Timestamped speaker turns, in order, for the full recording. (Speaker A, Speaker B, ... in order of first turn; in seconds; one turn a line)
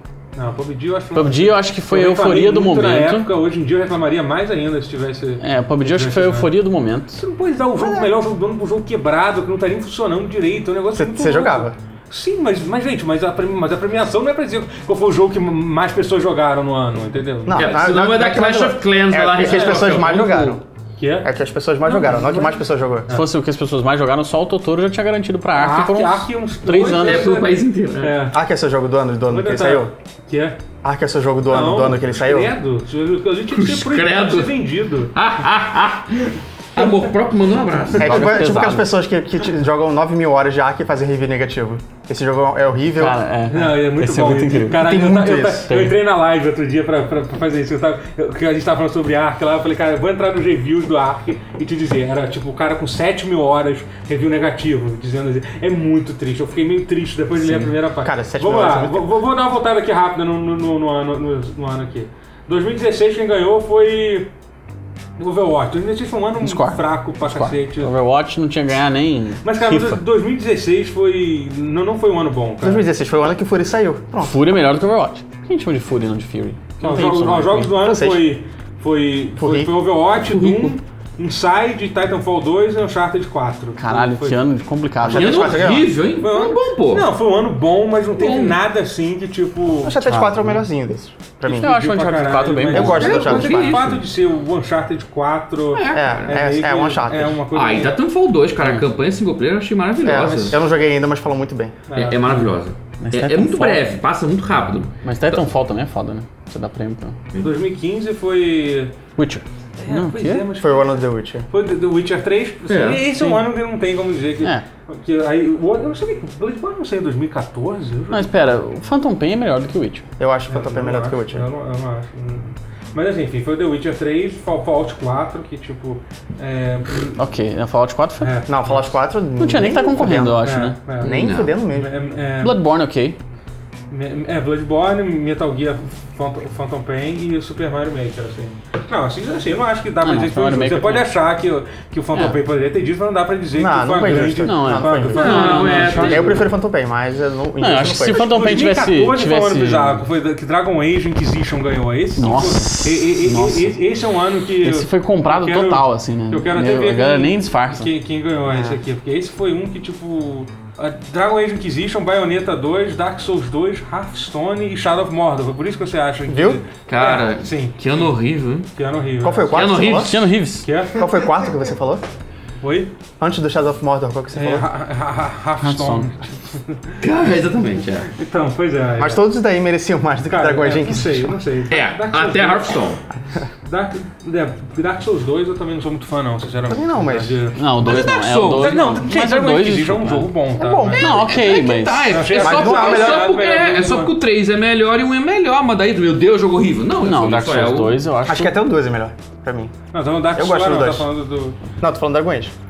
Speaker A: 0.3-6.5
Speaker B: 1.1-3.3
Speaker B: 5.4-7.2
Speaker A: 7.1-17.8
Speaker C: 7.8-8.1
Speaker C: 10.9-11.8
Speaker C: 17.4-20.6
Speaker D: 17.6-20.6
Speaker A: 19.4-19.9
Speaker A: 21.0-21.3
Speaker C: 21.2-23.1
Speaker A: 21.8-23.3
Speaker B: 23.1-27.4
Speaker A: 25.6-28.4
Speaker D: 26.9-28.3
Speaker C: 28.3-29.9
Speaker A: 29.3-30.6
Speaker C: 30.8-32.5
Speaker A: 31.5-35.1
Speaker D: 33.5-38.4
Speaker B: 38.0-38.9
Speaker C: 38.0-43.2
Speaker B: 43.0-45.9
Speaker A: 43.5-64.3
Speaker C: 44.7-45.7
Speaker B: 57.4-57.7
Speaker C: 58.0-59.1
Speaker A: 65.2-67.9
Speaker B: 66.4-70.0
Speaker A: 69.4-72.8
Speaker C: 72.6-74.4
Speaker B: 74.2-77.8
Speaker A: 76.8-84.4
Speaker C: 77.7-78.3
Speaker C: 79.4-79.8
Speaker D: 80.1-80.8
Speaker B: 83.8-85.8
Speaker C: 85.0-85.9
Speaker D: 85.0-87.1
Speaker A: 86.2-90.0
Speaker D: 88.2-88.6
Speaker C: 89.8-91.8
Speaker B: 90.0-90.6
Speaker B: 91.5-93.7
Speaker A: 91.6-98.0
Speaker C: 92.7-93.8
Speaker D: 92.7-94.0
Speaker D: 95.7-96.3
Speaker C: 95.9-97.4
Speaker D: 97.5-100.6
Speaker C: 100.0-101.8
Speaker A: 100.2-100.6
Speaker A: 101.9-102.5
Speaker D: 101.9-105.4
Speaker B: 103.0-103.8
Speaker B: 105.0-107.2
Speaker D: 107.3-107.6
Speaker A: 107.4-108.9
Speaker B: 109.2-110.5
Speaker A: 109.8-111.0
Speaker C: 110.6-111.5
Speaker A: 111.5-118.4
Speaker D: 112.7-113.3
Speaker B: 114.4-114.6
Speaker B: 118.1-120.0
Speaker C: 120.2-121.4
Speaker A: 120.5-127.1
Speaker B: 127.1-128.4
Speaker A: 128.2-128.8
Speaker C: 128.4-131.9
Speaker B: 129.4-130.8
Speaker A: 130.4-132.6
Speaker D: 131.0-131.6
Speaker B: 132.4-133.2
Speaker A: 133.9-146.4
Speaker B: 140.0-141.1
Speaker C: 143.5-148.6
Speaker B: 144.4-146.4
Speaker D: 145.2-146.4
Speaker B: 147.6-150.0
Speaker A: 148.1-167.8
Speaker B: 152.2-153.8
Speaker B: 154.6-157.9
Speaker C: 158.5-158.8
Speaker C: 166.3-166.6
Speaker D: 166.9-168.7
Speaker A: 168.7-169.7
Speaker C: 169.2-170.2
Speaker D: 169.5-170.2
Speaker B: 169.8-170.7
Speaker A: 170.6-171.0
Speaker C: 170.9-172.1
Speaker A: 172.6-172.9
Speaker C: 173.2-174.7
Speaker A: 174.3-177.0
Speaker B: 175.6-176.1
Speaker D: 177.0-178.1
Speaker A: 178.1-179.2
Speaker C: 179.0-181.3
Speaker A: 180.3-182.8
Speaker D: 181.7-183.0
Speaker A: 183.7-191.0
Speaker C: 186.7-187.4
Speaker B: 187.6-190.3
Speaker D: 187.8-189.0
Speaker C: 190.6-191.2
Speaker B: 190.9-192.3
Speaker D: 190.9-198.0
Speaker A: 192.1-194.1
Speaker C: 192.3-193.3
Speaker B: 197.0-198.5
Speaker C: 198.2-199.7
Speaker A: 199.9-201.6
Speaker C: 200.3-201.1
Speaker C: 201.8-202.5